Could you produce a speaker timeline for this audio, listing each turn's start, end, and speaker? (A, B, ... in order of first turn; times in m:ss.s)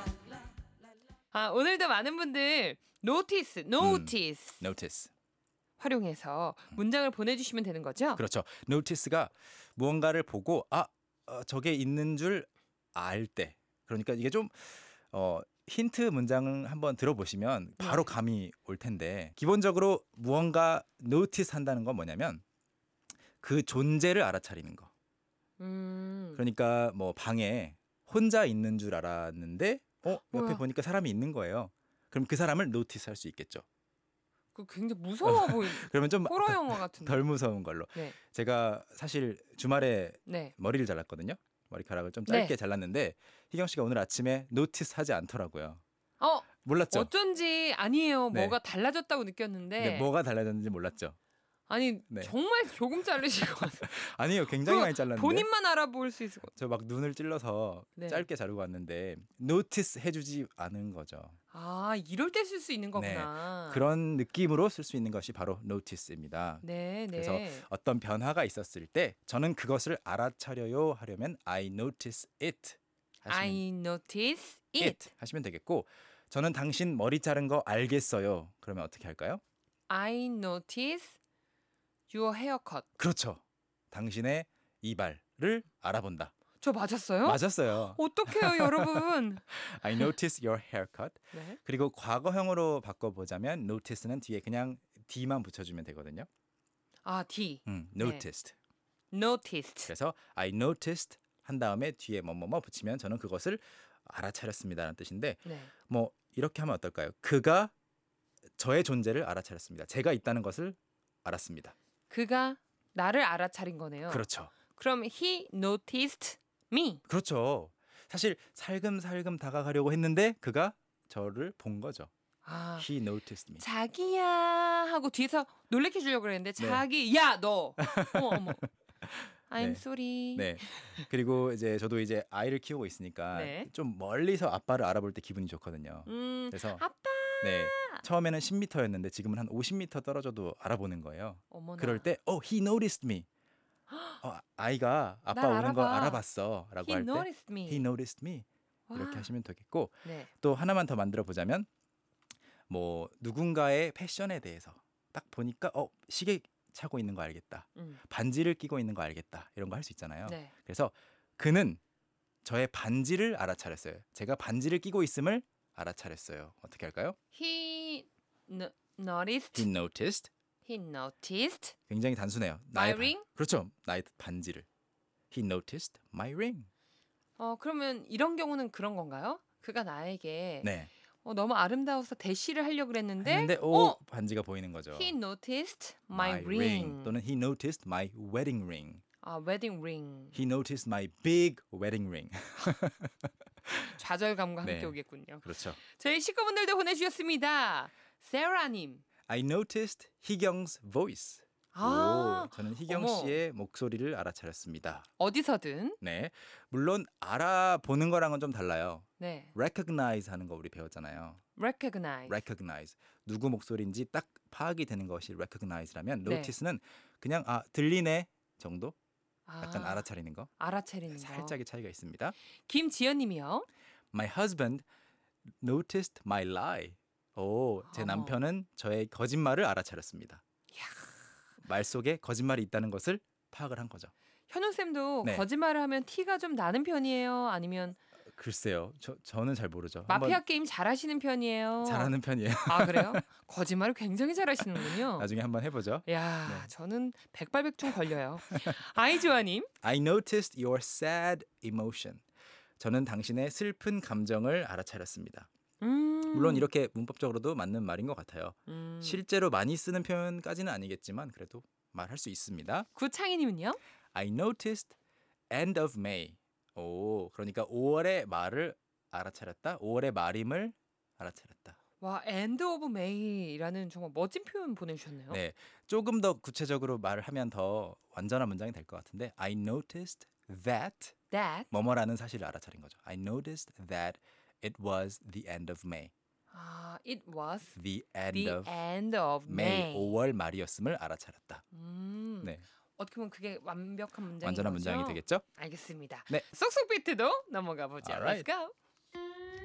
0:01.3-0:04.6 A
0:03.8-0:05.1 B
0:05.8-0:08.2 A
0:08.2-0:22.4 B
0:17.8-0:18.1 A
0:23.4-0:24.9 B
0:25.6-0:26.4 A
0:26.4-0:33.6 B
0:30.0-0:30.6 A
0:34.5-0:37.2 A
0:35.2-0:45.8 B
0:40.2-0:40.5 A
0:42.3-0:42.5 A
0:46.2-0:50.1 A
0:46.6-0:47.1 B
0:48.3-0:48.6 B
0:49.8-0:51.2 B
0:51.7-0:54.0 A
0:53.6-0:55.5 B
0:54.6-0:56.5 A
0:56.5-1:01.4 B
0:58.0-0:58.3 A
1:01.5-1:03.8 A
1:03.0-1:13.6 B
1:06.6-1:07.6 A
1:13.3-1:15.1 A
1:14.8-1:19.4 B
1:19.9-1:21.2 A
1:22.1-1:22.9 A
1:23.0-1:26.3 B
1:26.6-1:30.1 A
1:27.2-1:36.3 B
1:31.3-1:31.6 A
1:37.0-1:38.2 A
1:37.6-1:38.5 B
1:39.1-1:39.9 A
1:39.9-1:47.7 B
1:45.4-1:45.7 A
1:48.6-1:51.7 B
1:52.1-1:57.0 A
1:54.1-1:54.5 B
1:57.1-2:02.1 B
2:02.4-2:02.9 A
2:02.8-2:03.6 B
2:03.6-2:08.6 A
2:06.6-2:06.8 B
2:07.8-2:09.8 B
2:09.5-2:11.0 A
2:10.4-2:16.8 B
2:13.3-2:13.7 A
2:16.0-2:18.0 A
2:17.4-2:23.3 B
2:21.5-2:22.1 A
2:23.9-2:24.2 A
2:24.2-2:31.7 B
2:25.3-2:26.2 A
2:26.8-2:27.9 A
2:28.9-2:29.3 A
2:30.0-2:30.3 A
2:32.7-2:41.8 B
2:40.2-2:40.5 A
2:42.4-2:47.2 B
2:47.3-2:49.7 A
2:49.5-2:50.3 B
2:50.6-2:51.7 A
2:51.9-2:54.7 B
2:52.7-2:53.2 A
2:55.3-2:56.7 B
2:57.4-3:00.7 A
3:00.6-3:00.9 B
3:01.2-3:04.0 A
3:03.2-3:05.1 B
3:04.9-3:07.1 A
3:06.1-3:09.0 B
3:09.2-3:10.4 A
3:10.3-3:13.9 B
3:13.9-3:19.0 A
3:14.6-3:15.8 B
3:19.3-3:25.1 B
3:21.7-3:23.4 A
3:25.2-3:26.0 A
3:26.0-3:31.4 B
3:29.2-3:29.5 A
3:31.6-3:32.4 A
3:32.3-3:39.0 B
3:36.2-3:36.5 A
3:39.5-3:40.0 A
3:39.6-3:40.5 B
3:40.6-3:41.6 A
3:41.1-3:42.4 B
3:42.6-3:43.7 A
3:44.1-3:44.8 B
3:45.6-3:50.4 B
3:47.9-3:48.4 A
3:50.7-3:51.3 A
3:51.6-3:54.1 B
3:54.5-3:58.0 A
3:58.4-4:00.4 B
4:00.1-4:05.3 A
4:01.8-4:03.2 B
4:04.7-4:06.7 B
4:06.0-4:09.7 A
4:08.5-4:08.8 B
4:09.8-4:12.2 B
4:12.8-4:15.5 B
4:15.8-4:16.7 A
4:16.3-4:22.9 B
4:18.7-4:19.2 A
4:22.9-4:23.8 A
4:24.1-4:24.9 B
4:25.5-4:31.8 B
4:32.0-4:35.4 A
4:35.3-4:41.1 B
4:41.3-4:41.7 A
4:41.7-4:46.1 B
4:46.5-4:47.7 A
4:47.7-4:48.7 B
4:48.3-4:50.1 A
4:49.5-4:51.6 B
4:51.7-4:58.7 A
4:54.4-4:55.4 B
4:58.0-4:58.4 B